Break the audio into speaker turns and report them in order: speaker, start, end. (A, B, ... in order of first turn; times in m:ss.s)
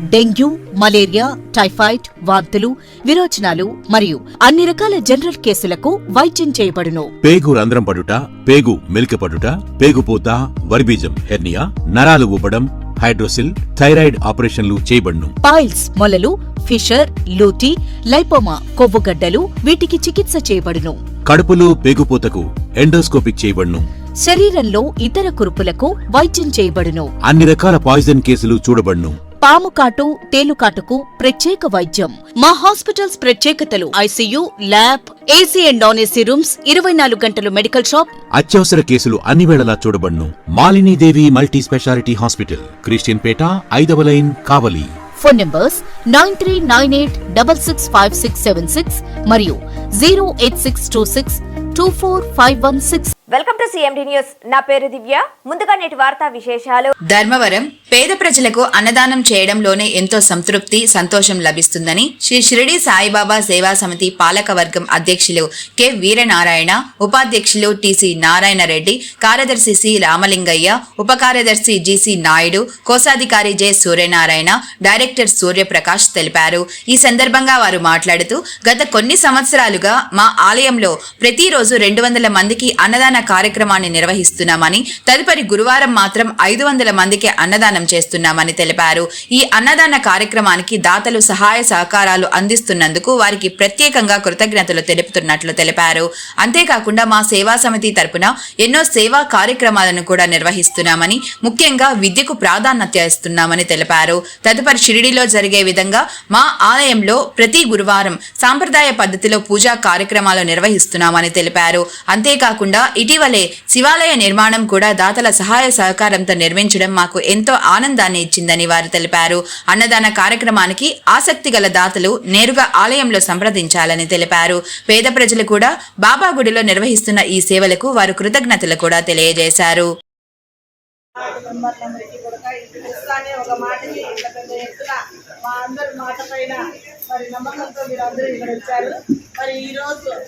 0:00.1-0:07.1 A
0:07.2-0:15.3 B
0:15.4-0:21.0 A
0:21.2-0:23.9 B
0:24.2-0:27.1 A
0:27.2-0:29.2 B
0:29.4-0:38.1 A
0:38.4-0:44.9 B
0:45.2-0:53.1 A
0:53.3-0:56.9 C
0:57.1-2:09.9 D
2:11.2-2:16.6 E
2:17.1-2:20.1 E